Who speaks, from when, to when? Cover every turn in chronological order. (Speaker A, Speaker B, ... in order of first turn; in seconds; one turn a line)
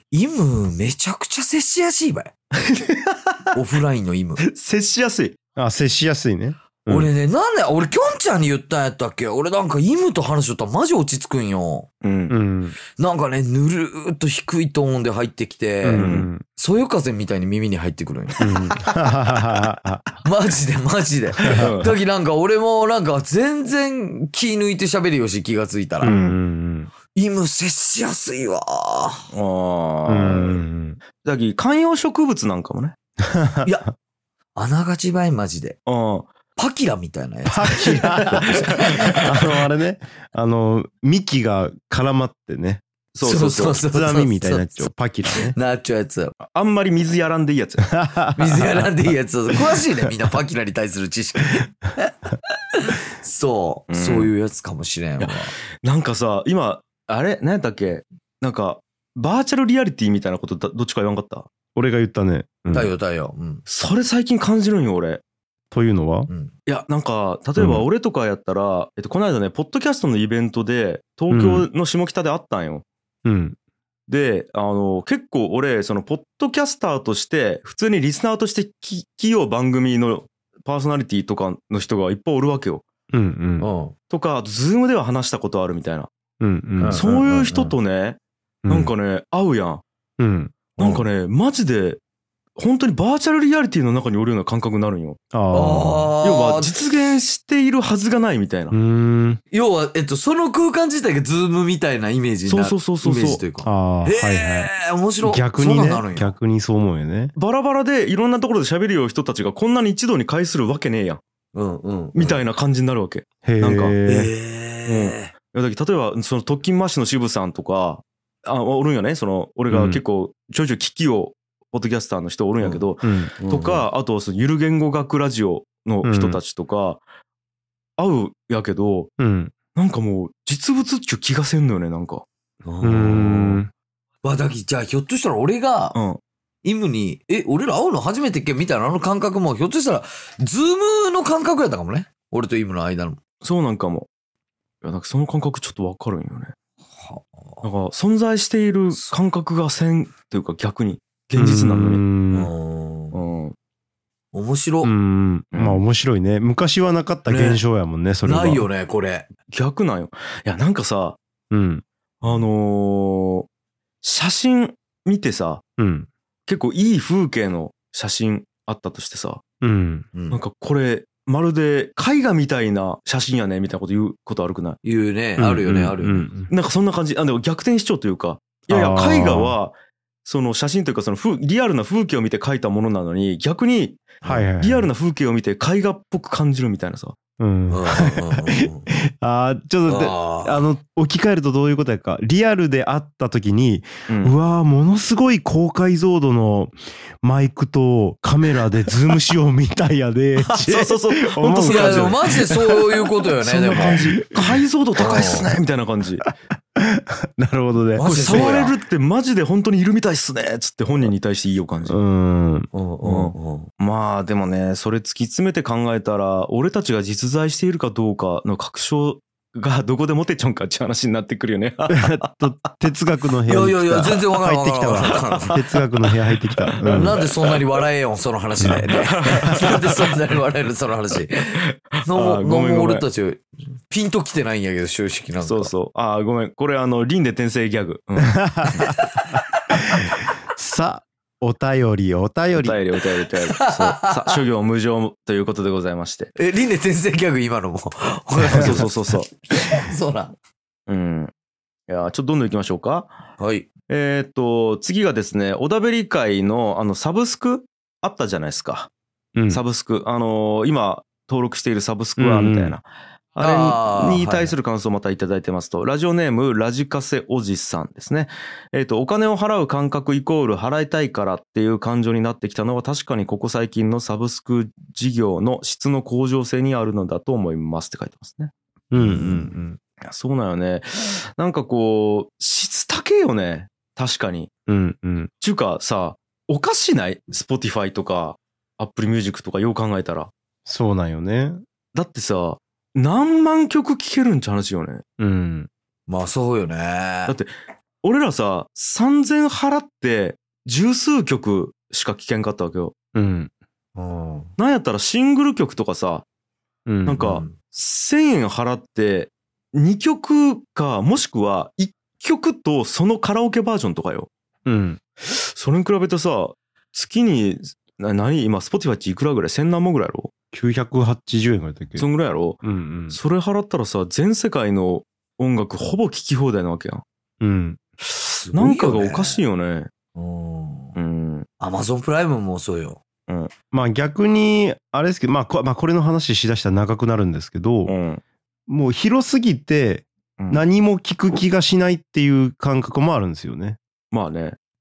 Speaker A: 0.1-2.3
Speaker B: 2.6-3.5
Speaker A: 3.5-4.4
Speaker B: 4.4-5.4
Speaker C: 5.6-7.1
Speaker A: 6.9-11.9
Speaker B: 12.0-12.3
Speaker C: 12.3-12.8
Speaker A: 13.0-19.0
Speaker C: 15.8-16.4
Speaker B: 15.9-16.3
Speaker C: 18.4-20.1
Speaker A: 20.2-26.1
Speaker C: 21.4-21.7
Speaker B: 21.5-22.0
Speaker B: 26.0-26.4
Speaker C: 26.0-26.9
Speaker A: 27.1-29.3
Speaker B: 29.3-30.6
Speaker C: 30.1-31.0
Speaker B: 31.2-33.0
Speaker C: 33.2-33.9
Speaker A: 34.6-35.8
Speaker B: 35.9-36.3
Speaker A: 36.6-39.3
Speaker C: 37.5-42.8
Speaker B: 38.3-38.9
Speaker B: 43.1-43.8
Speaker A: 43.2-46.3
Speaker C: 43.8-45.6
Speaker B: 46.4-48.0
Speaker C: 47.9-48.8
Speaker A: 48.4-55.5
Speaker B: 53.9-54.3
Speaker B: 55.2-61.5
Speaker C: 61.8-62.9
Speaker A: 62.7-63.6
Speaker B: 63.7-65.2
Speaker C: 65.7-66.3
Speaker B: 66.7-72.8
Speaker C: 67.6-67.9
Speaker C: 71.3-71.7
Speaker C: 73.2-73.6
Speaker B: 74.1-82.8
Speaker C: 83.1-83.7
Speaker A: 83.6-84.0
Speaker B: 84.1-86.1
Speaker C: 86.4-87.0
Speaker A: 86.8-87.8
Speaker B: 86.9-89.8
Speaker C: 88.7-88.9
Speaker C: 90.2-90.7
Speaker B: 90.8-92.0
Speaker B: 92.6-95.2
Speaker C: 95.3-96.1
Speaker A: 95.5-96.8
Speaker B: 96.2-98.8
Speaker C: 98.7-99.4
Speaker A: 99.5-106.3
Speaker B: 102.5-103.4
Speaker C: 103.6-107.3
Speaker B: 107.4-111.2
Speaker A: 111.5-112.4
Speaker B: 112.2-114.0
Speaker C: 113.4-114.3
Speaker A: 114.1-115.3
Speaker B: 114.9-127.0
Speaker C: 119.7-120.0
Speaker C: 123.0-123.3
Speaker A: 123.4-123.9
Speaker C: 126.0-126.4
Speaker B: 128.0-129.1
Speaker C: 129.2-129.5
Speaker B: 129.8-132.2
Speaker A: 132.7-133.6
Speaker C: 132.8-133.7
Speaker A: 134.2-136.0
Speaker B: 135.9-136.2
Speaker A: 136.6-143.2
Speaker B: 143.4-144.1
Speaker B: 144.8-146.5
Speaker A: 147.0-147.7
Speaker B: 147.6-152.0
Speaker C: 151.4-152.5
Speaker A: 152.3-153.2
Speaker B: 153.1-153.6
Speaker A: 154.3-154.9
Speaker C: 154.8-158.7
Speaker B: 155.5-155.8
Speaker A: 158.2-159.3
Speaker B: 159.5-161.2
Speaker C: 161.5-161.8
Speaker B: 162.2-163.5
Speaker B: 164.0-165.6
Speaker C: 165.8-166.1
Speaker B: 166.5-169.4
Speaker C: 169.6-170.1
Speaker A: 170.2-170.4
Speaker B: 170.3-174.8
Speaker A: 174.8-176.3
Speaker C: 175.4-176.5
Speaker B: 176.5-179.7
Speaker C: 178.7-179.6
Speaker B: 180.2-187.2
Speaker C: 184.2-184.9
Speaker C: 187.4-202.8
Speaker A: 187.7-188.9
Speaker A: 189.9-190.7
Speaker B: 194.1-194.3
Speaker B: 200.5-202.4
Speaker A: 201.6-204.0
Speaker B: 203.4-206.2
Speaker C: 203.8-204.6
Speaker A: 205.0-205.5
Speaker C: 206.2-208.5
Speaker A: 208.0-208.8
Speaker B: 208.0-212.0
Speaker C: 211.9-212.7
Speaker A: 212.7-213.7
Speaker B: 213.0-222.2
Speaker C: 221.9-227.2
Speaker A: 223.5-225.6
Speaker B: 226.5-227.5
Speaker A: 226.9-235.7
Speaker B: 229.1-230.1
Speaker B: 232.1-233.1
Speaker B: 235.4-238.9
Speaker C: 238.3-238.8
Speaker A: 238.8-240.0
Speaker C: 239.8-242.8
Speaker B: 242.6-246.3
Speaker A: 243.5-244.3
Speaker A: 246.4-250.3
Speaker B: 248.5-249.3
Speaker C: 248.5-248.8
Speaker B: 250.9-251.3
Speaker B: 251.9-253.1
Speaker A: 253.4-253.7
Speaker B: 253.9-258.9
Speaker C: 259.4-259.6
Speaker B: 259.5-262.9
Speaker C: 262.2-262.8
Speaker B: 263.4-278.5
Speaker A: 263.4-264.5
Speaker C: 278.9-279.8
Speaker A: 279.0-279.6
Speaker B: 280.0-284.5
Speaker C: 284.7-285.3
Speaker B: 285.4-290.3
Speaker C: 290.7-291.6
Speaker B: 291.9-295.0
Speaker C: 295.2-295.7
Speaker A: 296.1-297.4
Speaker B: 298.0-302.9
Speaker C: 303.1-303.5
Speaker A: 304.0-304.5
Speaker B: 304.6-306.2
Speaker C: 306.9-307.3
Speaker B: 307.1-314.3
Speaker A: 307.2-307.6
Speaker C: 314.7-315.0
Speaker B: 315.2-320.3
Speaker C: 320.5-322.1
Speaker B: 322.0-327.0
Speaker C: 322.6-323.2
Speaker C: 327.4-327.8
Speaker A: 328.4-329.4
Speaker B: 328.5-329.9
Speaker A: 330.1-331.0
Speaker B: 331.0-331.5
Speaker A: 331.6-333.0
Speaker C: 333.7-337.9
Speaker B: 337.9-338.2
Speaker C: 338.7-343.8
Speaker B: 344.1-344.6